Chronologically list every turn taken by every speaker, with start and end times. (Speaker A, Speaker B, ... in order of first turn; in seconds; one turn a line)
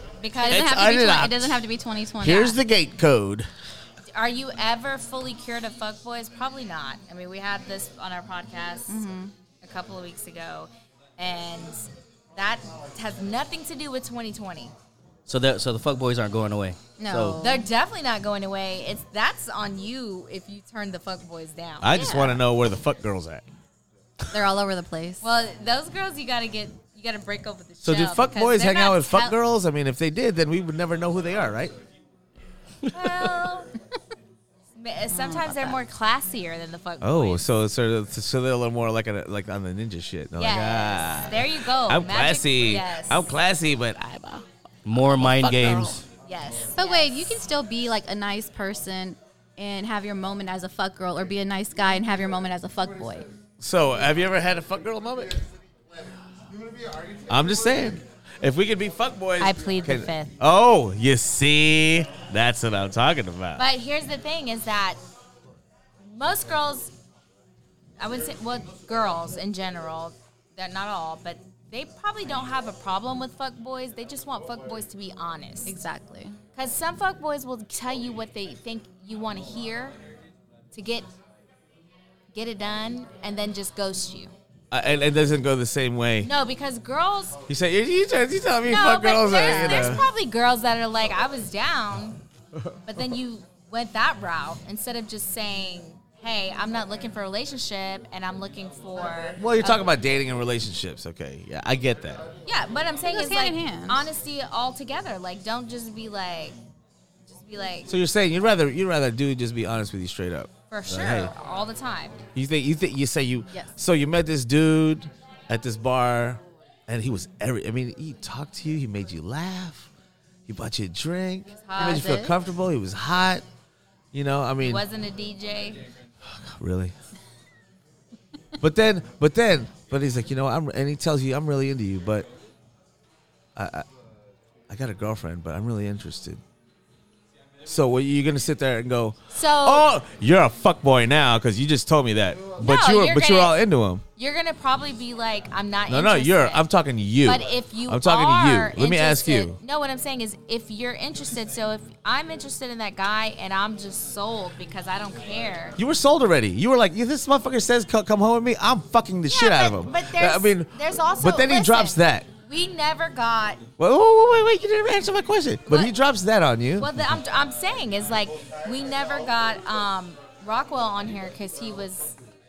Speaker A: 0.2-1.0
Speaker B: 0.4-2.6
Speaker C: 0.5-1.6
Speaker C: 2.2-3.5
Speaker A: 4.1-9.1
Speaker B: 8.9-9.3
Speaker A: 9.6-14.7
Speaker D: 15.3-17.4
Speaker B: 17.0-17.7
Speaker A: 17.4-22.4
Speaker C: 21.8-23.4
Speaker B: 24.3-25.2
Speaker A: 25.2-29.4
Speaker C: 27.8-31.8
Speaker D: 32.9-33.3
Speaker A: 32.9-33.7
Speaker A: 34.8-37.4
Speaker B: 35.1-35.8
Speaker C: 37.0-44.5
Speaker A: 40.4-43.3
Speaker D: 44.9-46.0
Speaker C: 45.2-46.0
Speaker A: 46.3-47.4
Speaker B: 46.8-53.3
Speaker C: 53.6-55.4
Speaker C: 57.3-63.6
Speaker A: 59.4-60.3
Speaker A: 63.6-65.0
Speaker A: 66.0-66.9
Speaker A: 68.0-75.8
Speaker B: 75.7-76.4
Speaker A: 76.6-80.0
Speaker A: 80.7-81.1
Speaker A: 82.3-84.3
Speaker C: 84.7-86.3
Speaker A: 86.2-87.4
Speaker C: 87.5-90.0
Speaker A: 88.7-92.2
Speaker B: 89.4-90.0
Speaker A: 92.9-99.8
Speaker C: 99.4-102.3
Speaker A: 102.5-106.6
Speaker B: 103.1-104.1
Speaker A: 107.3-107.9
Speaker C: 107.9-111.3
Speaker A: 110.7-112.2
Speaker C: 112.3-119.9
Speaker C: 120.5-123.5
Speaker A: 121.5-122.2
Speaker B: 121.8-122.3
Speaker C: 124.1-124.8
Speaker A: 124.6-125.8
Speaker C: 126.2-127.0
Speaker C: 128.6-132.3
Speaker C: 133.6-133.9
Speaker C: 134.7-136.4
Speaker C: 137.6-144.1
Speaker A: 139.3-139.9
Speaker A: 142.6-143.6
Speaker A: 144.2-146.7
Speaker C: 145.9-149.6
Speaker A: 147.2-155.8
Speaker C: 155.8-162.3
Speaker A: 159.3-163.7
Speaker C: 163.8-167.0
Speaker A: 165.7-165.9
Speaker A: 166.8-172.2